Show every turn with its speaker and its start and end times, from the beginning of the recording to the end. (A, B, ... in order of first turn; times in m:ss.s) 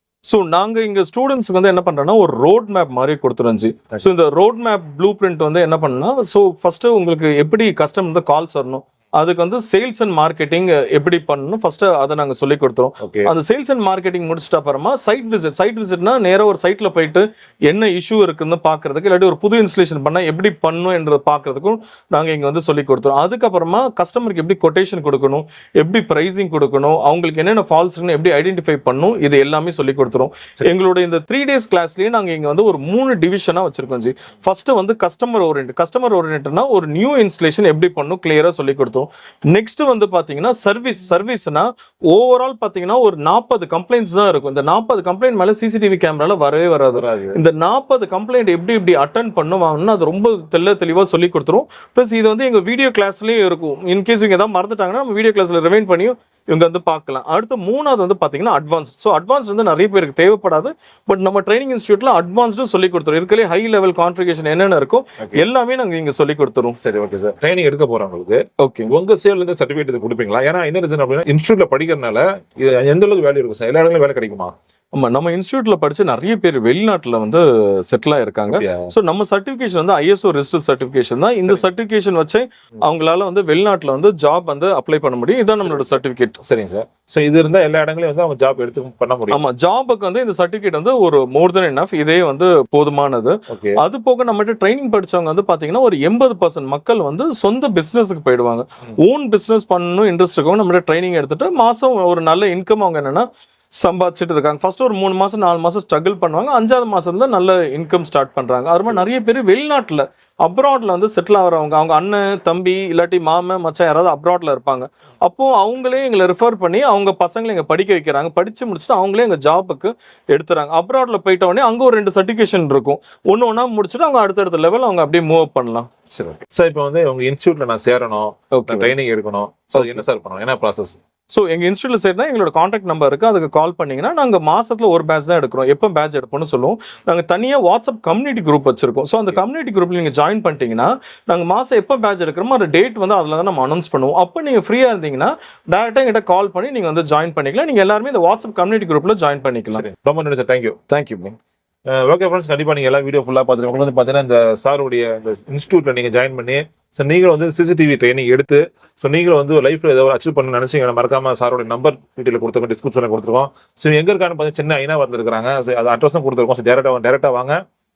0:00.3-1:06.8 A
0:13.0-0:13.3 B
0:46.9-0:47.4 B
1:06.8-1:14.5 B
1:08.6-1:08.9 A
1:14.9-1:26.4 A
1:18.5-1:18.9 B
1:25.6-1:29.4 B
1:29.3-2:05.9 A
1:33.5-1:33.8 B
2:06.1-2:11.0 B
2:08.5-2:08.9 A
2:09.7-2:10.0 A
2:11.3-2:29.8 A
2:29.7-2:30.8 B
2:30.9-2:31.4 A
2:31.9-2:47.6 B